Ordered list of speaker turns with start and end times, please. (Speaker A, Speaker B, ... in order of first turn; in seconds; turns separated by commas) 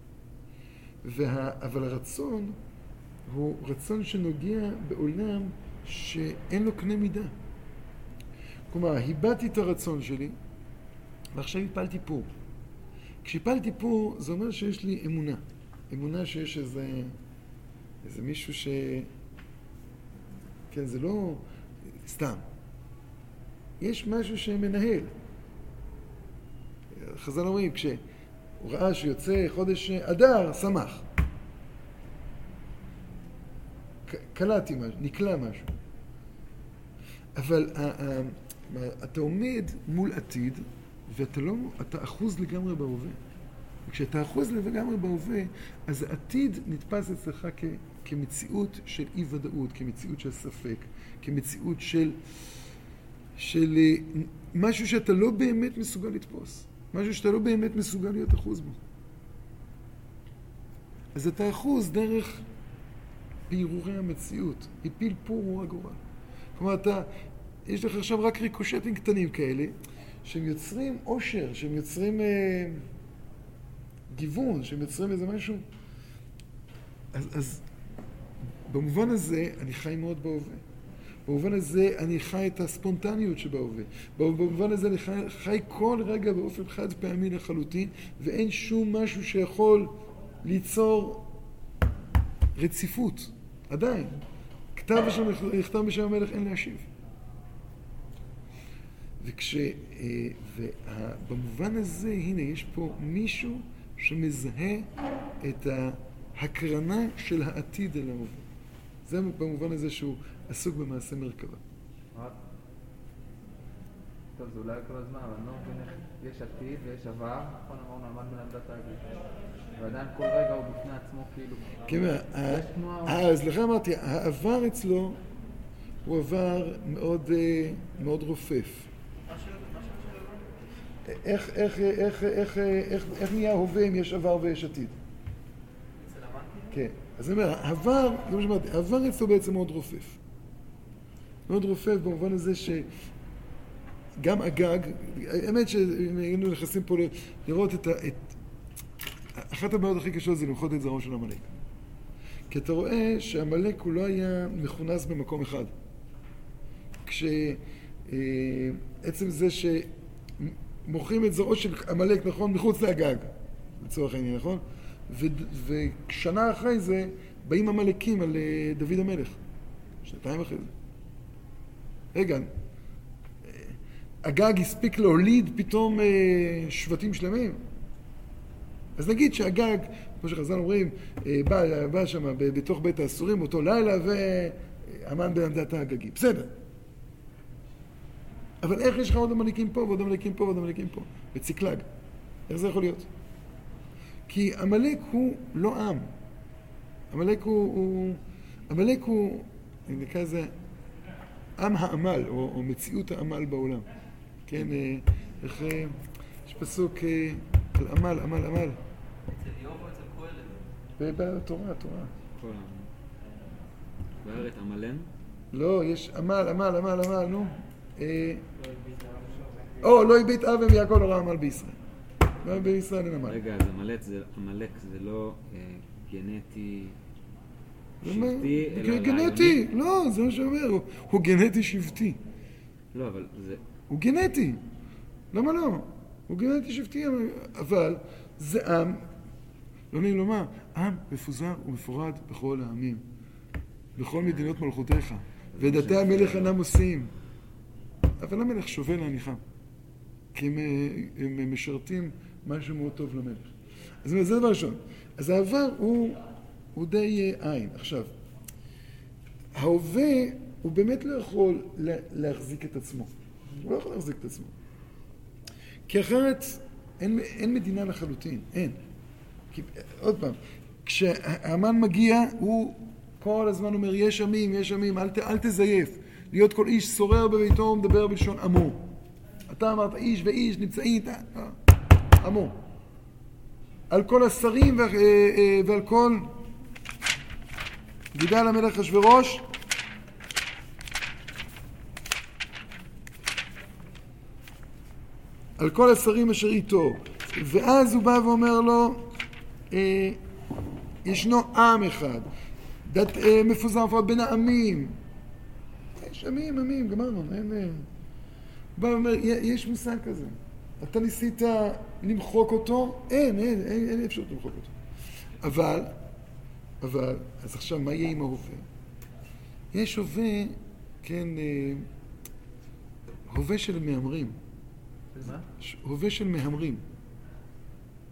Speaker A: 1.0-2.6, Speaker A: 3.3-7.3, Speaker A: 8.7-10.4, Speaker A: 11.3-12.3, Speaker A: 13.2-17.2, Speaker A: 18.0-19.1, Speaker A: 20.7-21.4, Speaker A: 22.0-22.4, Speaker A: 23.8-25.1, Speaker A: 26.9-28.0, Speaker A: 28.6-31.1, Speaker A: 34.1-35.7, Speaker A: 37.4-43.2, Speaker A: 43.9-52.2, Speaker A: 53.4-58.8, Speaker A: 61.1-62.4, Speaker A: 63.5-66.0, Speaker A: 66.6-67.1, Speaker A: 67.7-72.9, Speaker A: 74.1-75.7, Speaker A: 77.1-77.6, Speaker A: 78.7-80.6, Speaker A: 81.3-91.3, Speaker A: 92.6-94.2, Speaker A: 94.7-96.9, Speaker A: 99.2-104.9, Speaker A: 105.4-108.4, Speaker A: 109.1-111.6, Speaker B: 114.4-119.0, Speaker B: 119.8-121.8, Speaker A: 121.9-125.2, Speaker B: 122.5-123.2, Speaker A: 126.0-128.9, Speaker C: 129.3-130.5, Speaker A: 131.1-135.0, Speaker C: 136.0-136.7, Speaker A: 136.7-140.2, Speaker A: 141.5-142.9, Speaker A: 144.2-148.4, Speaker A: 149.4-151.6, Speaker A: 152.5-155.7, Speaker A: 157.1-169.4, Speaker A: 170.0-170.7, Speaker A: 172.1-172.5, Speaker A: 173.5-177.6, Speaker A: 179.0-186.5, Speaker A: 188.6-191.9, Speaker A: 192.5-193.1, Speaker A: 194.3-196.1, Speaker A: 197.1-200.5, Speaker A: 201.6-203.9, Speaker A: 204.5-208.8, Speaker C: 209.3-210.6, Speaker A: 211.0-212.1, Speaker D: 212.4-212.9, Speaker D: 214.2-215.1, Speaker A: 215.5-218.4, Speaker C: 218.6-219.8, Speaker A: 219.8-221.8, Speaker A: 222.4-223.4, Speaker D: 223.3-227.0, Speaker A: 228.0-232.2, Speaker D: 228.1-229.6, Speaker D: 232.9-233.6, Speaker A: 233.9-234.6, Speaker A: 235.3-239.1, Speaker A: 239.9-243.0, Speaker A: 244.0-247.1, Speaker D: 245.6-246.5, Speaker A: 248.2-249.4, Speaker A: 250.3-253.5, Speaker A: 254.0-256.2, Speaker A: 256.7-258.1, Speaker A: 259.5-264.5, Speaker A: 265.9-268.8, Speaker A: 269.5-278.8, Speaker A: 279.5-281.6, Speaker A: 282.2-282.6, Speaker A: 283.9-286.3, Speaker A: 288.1-289.5, Speaker A: 295.6-299.1, Speaker A: 299.7-300.2, Speaker A: 301.0-302.3, Speaker A: 302.9-305.0, Speaker A: 306.0-307.9, Speaker A: 308.8-314.7, Speaker A: 315.4-316.0, Speaker A: 316.8-318.7, Speaker A: 319.7-321.9, Speaker A: 323.3-324.4, Speaker B: 325.1-325.4, Speaker A: 325.2-326.8